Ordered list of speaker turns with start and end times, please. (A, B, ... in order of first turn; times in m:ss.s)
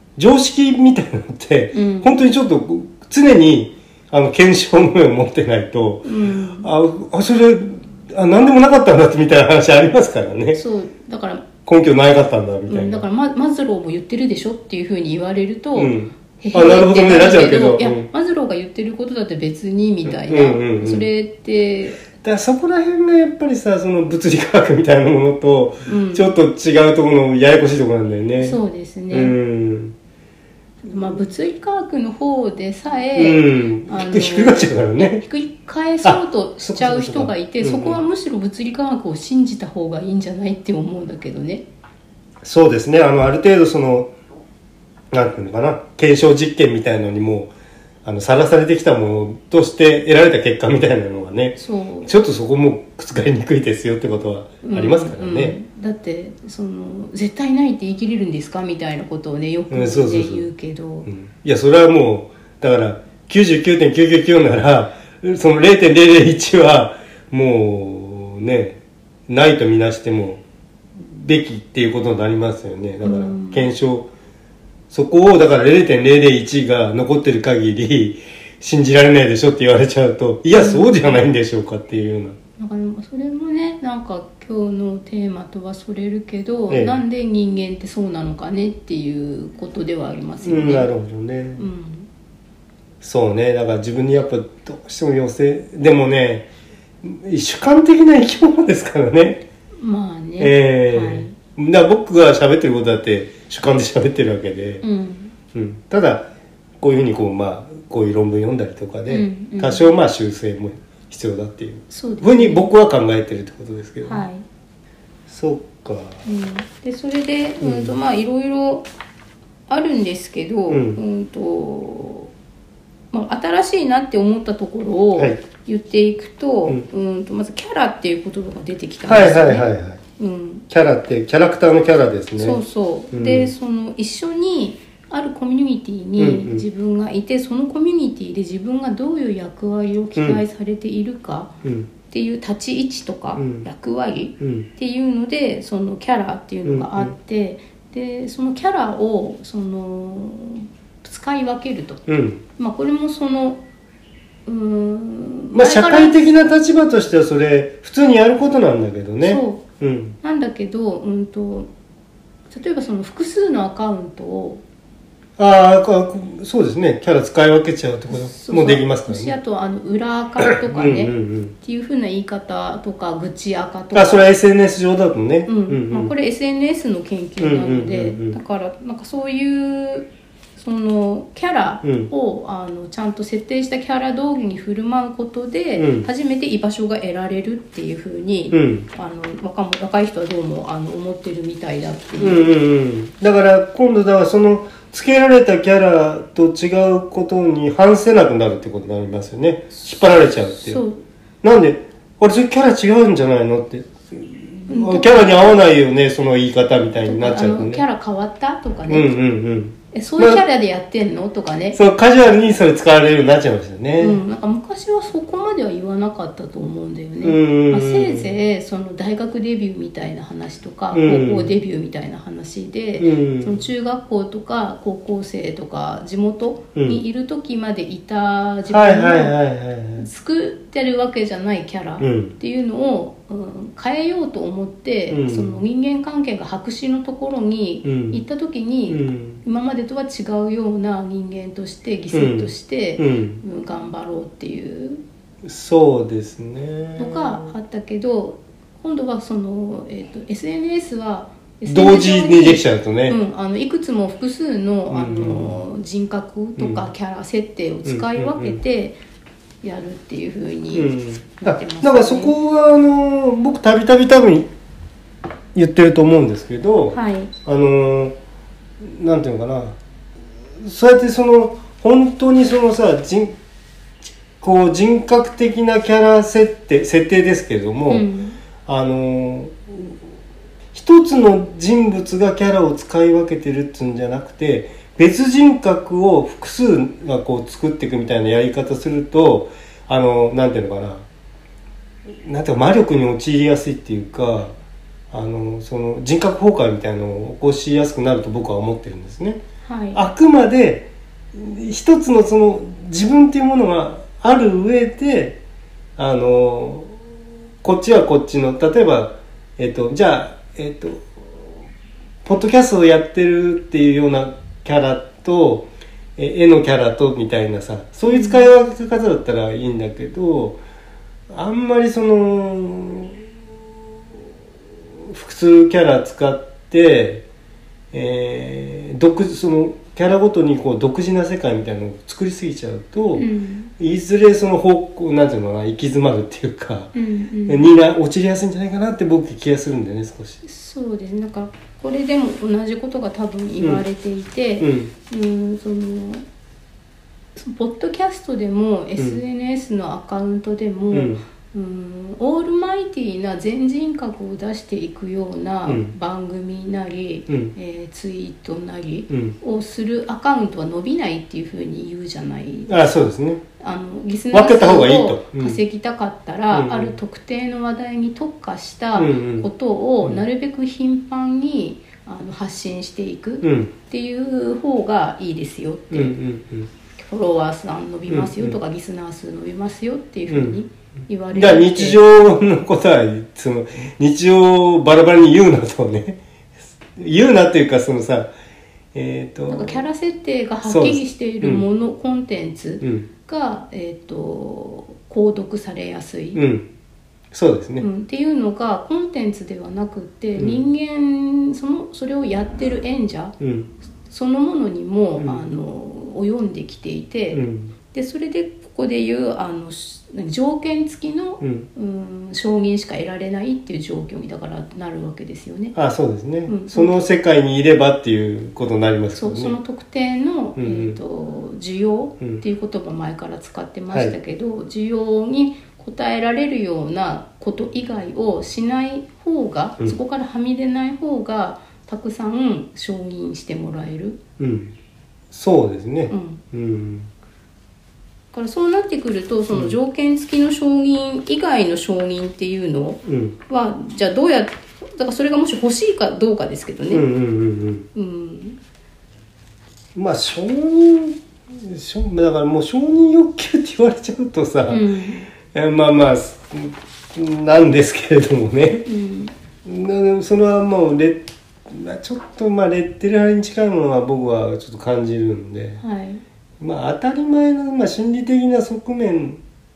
0:00.2-0:10.6 A
0:01.7-0:02.1 B
0:06.0-0:06.7 B
0:10.5-0:11.5 B
0:11.6-0:13.0 A
0:12.7-0:22.0 B
0:15.7-0:18.1 A
0:20.1-0:21.1 A
0:22.1-0:28.6 A
0:25.8-0:26.3 B
0:28.4-0:29.3 B
0:29.1-0:29.9 A
0:30.8-0:41.6 B
0:33.2-0:35.2 A
0:36.0-0:38.0 A
0:42.4-0:44.1 A
0:45.1-0:47.5 A
0:48.0-0:55.6 A
0:51.6-0:52.1 B
0:54.6-1:01.1 B
0:59.7-1:00.5 A
1:01.0-1:10.4 A
1:11.0-1:14.1 A
1:13.0-1:13.7 B
1:14.9-1:22.4 A
1:20.5-1:21.2 B
1:22.6-1:30.9 B
1:26.7-1:27.0 A
1:30.4-1:31.7 A
1:31.6-1:32.1 B
1:33.0-1:36.5 A
1:37.0-1:39.4 A
1:39.8-1:41.4 B
1:40.4-1:44.8 A
1:44.8-1:45.3 B
1:45.5-1:46.3 A
1:46.8-1:54.3 A
1:49.1-1:49.9 B
1:51.9-1:52.7 B
1:54.0-1:54.4 B
1:55.3-1:56.2 A
1:56.2-1:58.9 B
1:57.6-1:57.9 A
1:59.7-2:02.3 B
2:00.7-2:01.0 A
2:03.1-2:10.6 B
2:05.2-2:05.4 A
2:09.1-2:10.0 A
2:10.7-2:12.6 A
2:12.4-2:21.5 B
2:13.1-2:13.5 A
2:16.2-2:16.6 A
2:20.2-2:20.4 A
2:21.6-2:21.9 A
2:22.1-2:33.6 B
2:23.4-2:23.7 A
2:24.4-2:24.7 A
2:26.6-2:27.1 A
2:32.1-2:32.4 A
2:34.4-2:36.2 B
2:35.5-2:40.2 A
2:39.2-2:39.6 B
2:40.2-2:41.7 B
2:42.5-2:44.6 B
2:45.4-2:49.4 A
2:48.1-2:54.3 B
2:50.4-2:51.5 A
2:53.9-2:56.1 A
2:55.5-3:12.5 B
2:57.4-2:58.4 A
3:01.8-3:02.1 A
3:05.8-3:06.1 A
3:08.5-3:08.8 A
3:12.2-3:20.8 A
3:20.1-3:21.0 B
3:21.4-3:27.8 A
3:24.7-3:25.6 B
3:27.0-3:29.1 B
3:28.9-3:30.4 A
3:29.9-3:31.8 B
3:31.7-3:34.2 A
3:34.0-3:49.4 B
3:37.2-3:38.3 A
3:40.9-3:41.5 A
3:43.0-3:43.6 A
3:46.7-3:47.0 A
3:48.7-3:50.1 A
3:50.0-4:05.0 B
3:52.0-3:52.3 A
3:55.1-3:55.6 A
3:57.8-3:58.2 A
3:58.9-3:59.4 A
4:02.1-4:03.4 A
4:05.4-4:07.5 A
4:07.0-4:19.0 B
4:11.6-4:13.2 A
4:14.9-4:15.6 A
4:16.6-4:16.9 A
4:17.8-4:18.6 A
4:19.6-4:22.4 B
4:20.7-4:24.5 A
4:25.5-4:28.1 A
4:26.9-4:27.3 B
4:28.8-4:29.8 A
4:30.6-4:33.4 A
4:34.4-4:38.0 A
4:37.9-4:38.4 B
4:38.6-4:40.0 A
4:40.7-4:51.0 A
4:52.2-4:54.5 A
4:55.1-4:59.4 A
4:59.6-5:00.0 B
4:59.9-5:05.4 A
5:06.0-5:07.0 A
5:07.6-5:11.5 A
5:12.2-5:20.6 A
5:18.1-5:18.5 B
5:21.3-5:23.2 A
5:25.1-5:27.2 A
5:27.9-5:33.3 A
5:33.2-5:33.7 B
5:33.8-5:36.9 A
5:36.9-5:37.7 B
5:37.5-5:40.4 A
5:40.4-5:46.2 B
5:44.6-5:44.9 A
5:47.4-6:02.8 B
5:50.9-5:51.2 A
5:55.6-5:55.9 A
5:59.1-5:59.3 A
6:02.7-6:03.4 A
6:03.6-6:16.2 B
6:04.3-6:05.6 A
6:06.5-6:06.9 A
6:09.0-6:09.5 A
6:13.4-6:13.7 A
6:15.9-6:16.7 A
6:17.0-6:22.0 B
6:18.1-6:18.6 A
6:20.3-6:20.6 A
6:21.3-6:26.2 A
6:26.9-6:28.3 A
6:28.9-6:29.8 A
6:29.5-6:36.4 B
6:30.6-6:31.6 A
6:32.8-6:33.1 A
6:36.3-6:36.7 A
6:37.3-6:37.9 A
6:37.8-6:43.4 B
6:40.4-6:40.6 A
6:43.4-6:43.7 A
6:44.1-6:55.7 B
6:45.2-6:45.5 A
6:47.3-6:47.7 A
6:51.4-6:51.7 A
6:55.7-6:59.6 A
6:56.5-6:56.9 B
6:59.1-7:14.2 B
7:00.6-7:01.0 A
7:14.4-7:14.7 A
7:15.3-7:17.1 A
7:16.1-7:16.4 B
7:18.3-7:27.0 B
7:23.0-7:23.4 A
7:26.9-7:27.9 A
7:27.9-7:28.6 B
7:29.9-7:34.8 A
7:34.7-7:35.3 B
7:35.5-7:38.9 A
7:38.8-7:39.3 B
7:39.6-7:45.8 A
7:45.8-7:46.2 B
7:46.6-7:49.4 A